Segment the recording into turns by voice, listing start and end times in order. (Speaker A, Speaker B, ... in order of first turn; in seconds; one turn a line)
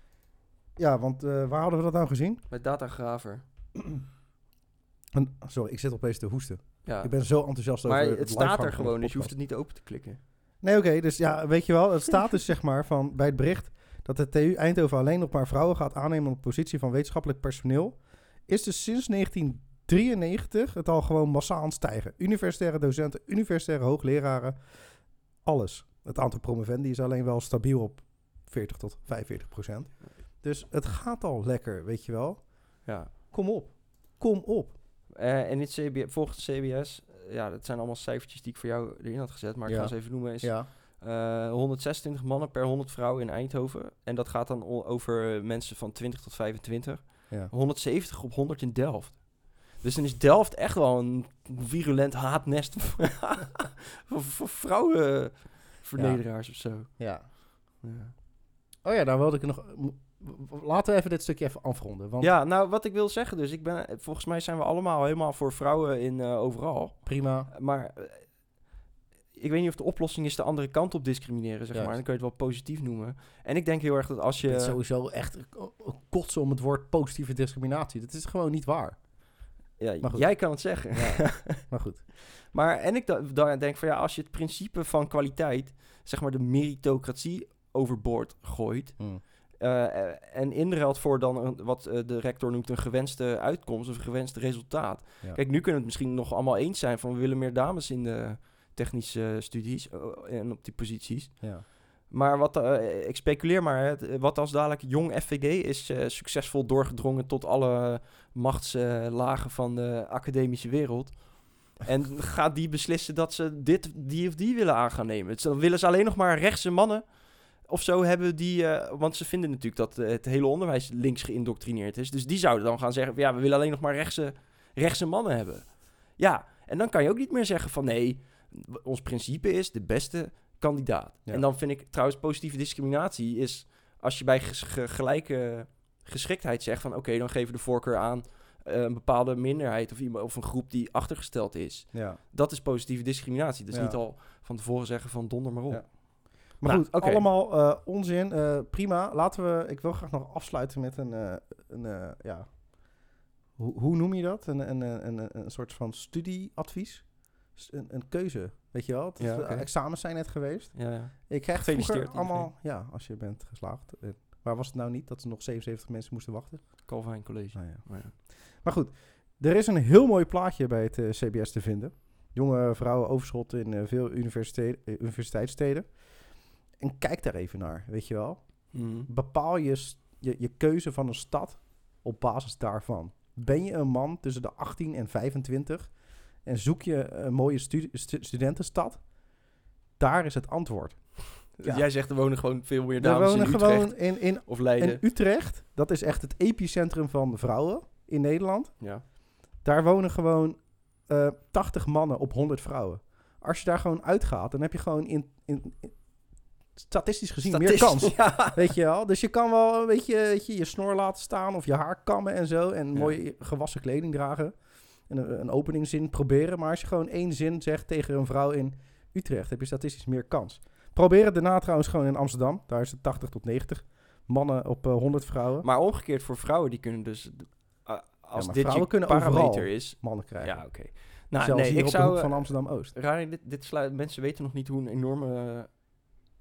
Speaker A: 0.8-2.4
Speaker B: 2.5-3.4
Speaker A: 5.1-9.3
Speaker B: 6.8-7.1
Speaker B: 7.8-10.2
Speaker A: 10.6-24.9
Speaker A: 25.4-34.8
Speaker B: 32.8-33.1
Speaker B: 35.1-58.1
Speaker A: 39.6-40.7
Speaker A: 56.0-56.2
Speaker A: 56.9-57.3
Speaker A: 58.8-62.3
Speaker B: 62.2-68.4
Speaker A: 67.0-67.5
Speaker B: 69.3-74.8
Speaker A: 71.7-72.0
Speaker A: 74.4-79.4
Speaker B: 79.8-81.7
Speaker A: 80.0-82.0
Speaker B: 82.3-147.3
Speaker A: 89.0-89.2
Speaker A: 101.4-101.7
Speaker A: 141.9-142.2
Speaker A: 143.7-144.0
Speaker A: 145.7-189.3
Speaker B: 159.2-159.7
Speaker B: 160.7-162.5
Speaker B: 166.8-168.1
Speaker B: 178.7-179.1
Speaker A: 190.0-191.9
Speaker B: 191.6-195.0
Speaker A: 193.0-199.0
Speaker A: 199.6-206.0
Speaker A: 206.8-225.7
Speaker B: 207.4-208.7
Speaker B: 225.6-235.8
Speaker A: 228.3-232.9